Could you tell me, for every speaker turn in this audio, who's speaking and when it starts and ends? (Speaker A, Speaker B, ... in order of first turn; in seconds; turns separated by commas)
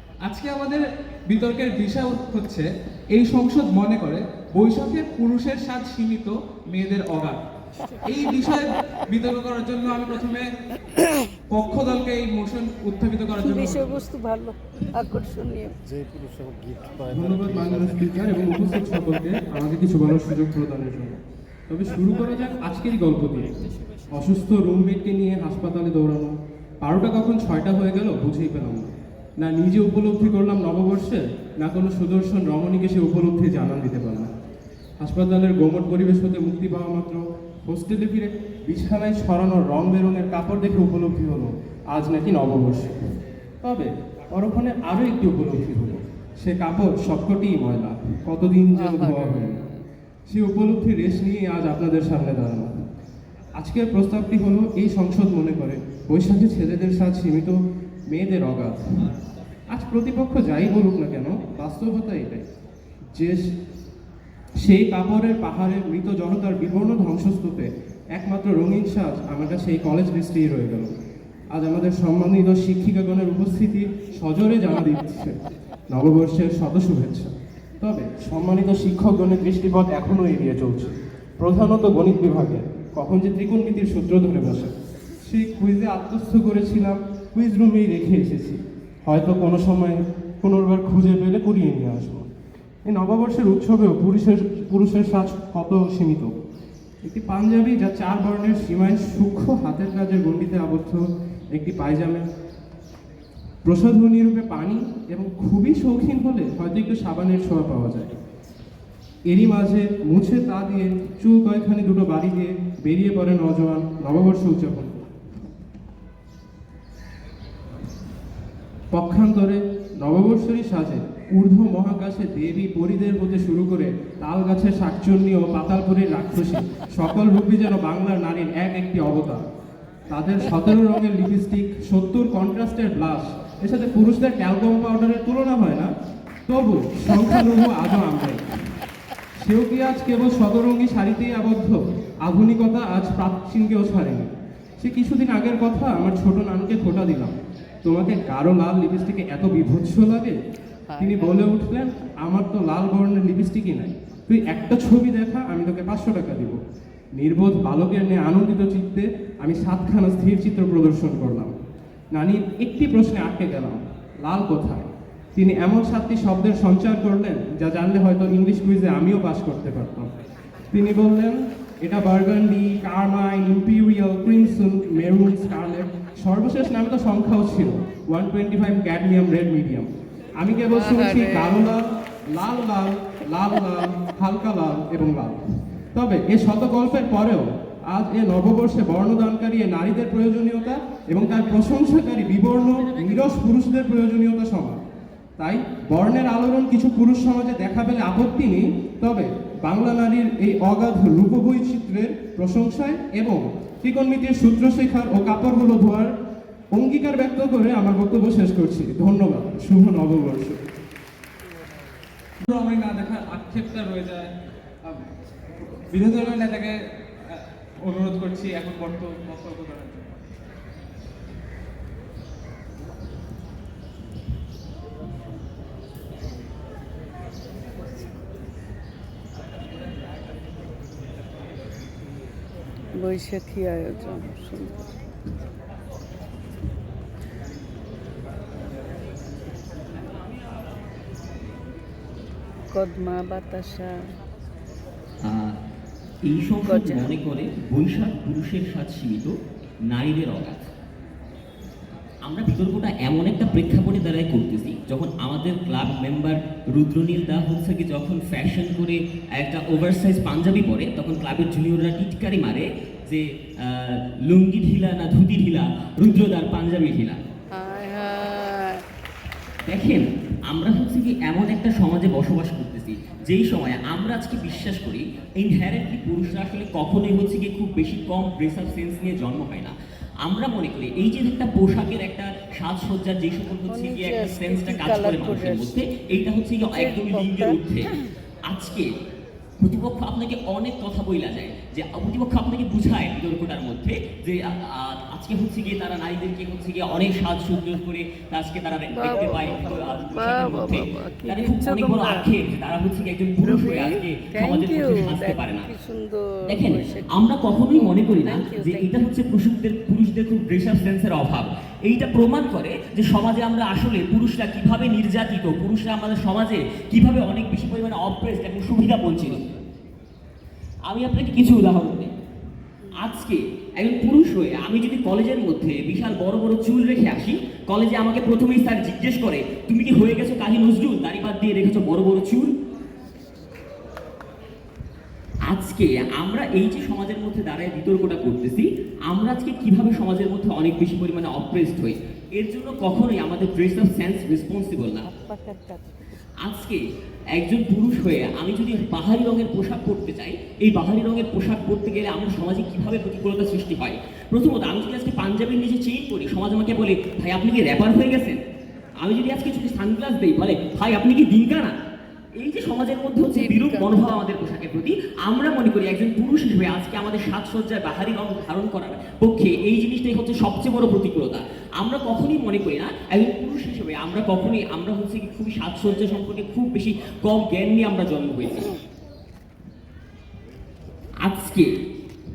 Speaker A: 0.2-7.4, Speaker A: 8.1-10.5, Speaker A: 11.5-14.0, Speaker B: 13.4-15.8, Speaker C: 15.9-17.9, Speaker D: 17.1-34.3, Speaker D: 35.0-43.0, Speaker D: 43.6-49.6, Speaker B: 48.7-49.6, Speaker D: 50.3-52.7, Speaker D: 53.6-57.6, Speaker D: 58.1-59.1, Speaker D: 59.7-62.5, Speaker D: 63.1-63.5, Speaker D: 64.6-70.9, Speaker D: 71.5-75.3, Speaker D: 75.9-84.7, Speaker D: 85.3-92.3, Speaker D: 92.9-96.3, Speaker D: 97.0-101.0, Speaker D: 101.5-102.2, Speaker D: 103.7-108.1, Speaker D: 109.3-115.1, Speaker D: 118.9-129.4, Speaker D: 130.1-135.9, Speaker D: 136.5-138.6, Speaker D: 139.4-150.4, Speaker B: 150.9-151.5, Speaker D: 151.0-156.6, Speaker D: 157.2-161.5, Speaker D: 162.1-170.1, Speaker D: 170.7-179.9, Speaker D: 180.4-185.4, Speaker B: 180.7-181.7, Speaker D: 185.9-194.8, Speaker D: 195.4-206.1, Speaker D: 206.7-210.6, Speaker A: 212.4-214.3, Speaker A: 215.7-220.1, Speaker B: 233.0-234.8, Speaker B: 242.7-243.9, Speaker E: 245.2-245.6, Speaker E: 246.2-249.3, Speaker B: 246.6-247.1, Speaker E: 249.9-250.7, Speaker E: 252.2-267.2, Speaker B: 267.5-268.8, Speaker E: 269.7-288.0, Speaker B: 283.7-285.8, Speaker B: 286.7-287.6, Speaker E: 288.5-288.9, Speaker E: 289.6-305.7, Speaker B: 298.9-302.3, Speaker B: 303.4-308.9, Speaker E: 306.5-319.5, Speaker E: 320.9-322.1, Speaker E: 322.9-332.5, Speaker E: 335.5-345.1, Speaker B: 345.0-345.9, Speaker E: 346.4-346.8, Speaker E: 347.3-358.4, Speaker E: 359.0-361.7, Speaker E: 362.4-378.7, Speaker B: 363.3-363.9, Speaker E: 381.2-381.7